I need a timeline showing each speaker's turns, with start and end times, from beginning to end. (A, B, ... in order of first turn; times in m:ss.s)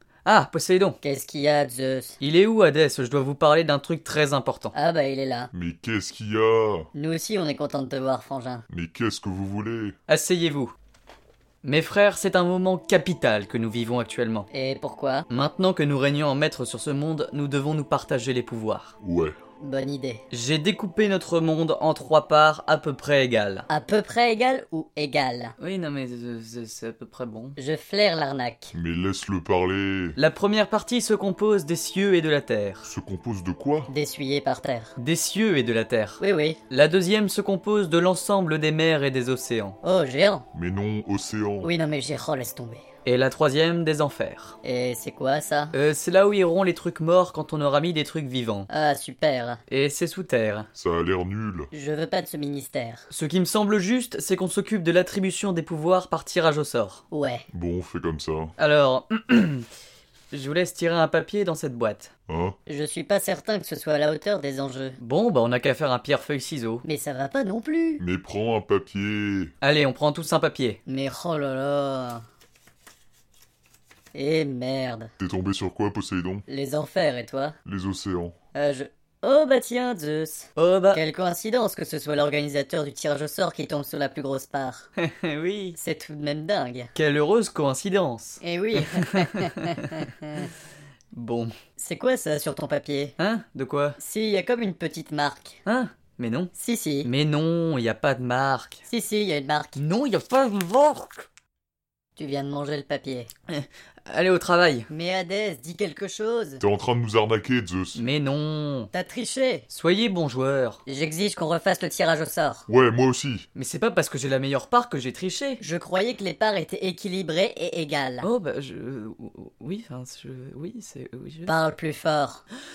0:00.2-0:01.0 A
0:01.0-0:02.2 B
0:02.2-0:04.7 A
0:04.7-0:05.5 B
0:05.5-0:06.9 C
0:06.9-0:08.6 B
0:08.7-0:09.9 C
0:10.1-0:10.7 A
0:11.6-0:14.5 A
0:14.5-0:15.3 B
0:15.3-0:18.9 A
0:19.0-0:19.4 C
0:19.6-0:20.2 B
0:20.3-0:23.7 A
0:23.7-0:25.5 B
0:25.6-0:27.6 A
0:27.6-0:28.7 B
0:28.7-0:30.2 C
0:30.2-0:32.9 A
0:32.8-0:33.9 C
0:33.9-0:34.9 B
0:35.0-0:39.8 A
0:36.2-0:36.6 B
0:39.8-0:40.4 B
0:40.5-0:41.7 C
0:41.6-0:42.8 B
0:43.0-0:44.6 A
0:44.6-0:45.7 B
0:45.7-0:48.7 A
0:48.7-0:49.6 B
0:49.7-0:50.7 A
0:50.7-0:51.7 C
0:51.7-0:53.0 B
0:53.1-0:57.0 A
0:57.1-0:57.4 B
0:57.5-0:58.5 C
0:58.6-0:59.6 A
1:00.3-1:02.1 A
1:02.3-1:02.6 C
1:02.7-1:05.0 B
1:05.0-1:06.8 A
1:06.8-1:08.0 B
1:08.0-1:09.5 C
1:09.6-1:10.8 A
1:10.8-1:12.2 B
1:14.1-1:15.1 B
1:15.2-1:16.4 C
1:16.5-1:17.6 B
1:17.6-1:18.3 C
1:18.5-1:24.9 B
1:20.6-1:21.0 A
1:25.0-1:25.8 A
1:25.8-1:26.9 B
1:26.9-1:30.1 A
1:28.4-1:30.5 B
1:31.1-1:31.5 A
1:31.8-1:33.1 B
1:33.2-1:34.0 A
1:34.0-1:35.6 B
1:35.6-1:36.5 A
1:36.5-1:37.1 B
1:37.0-1:38.8 A
1:38.9-1:39.8 B
1:39.8-1:41.2 A
1:42.2-1:43.3 B
1:43.5-1:44.9 A
1:44.9-1:46.6 B
1:46.6-1:48.0 C
1:47.9-1:48.9 A
1:48.9-1:49.7 B
1:49.7-1:50.8 A
1:50.8-1:52.6 B
1:52.7-1:53.5 C
1:53.5-1:55.6 A
1:55.6-1:58.3 B
1:58.2-2:01.5 A
2:01.5-2:02.4 B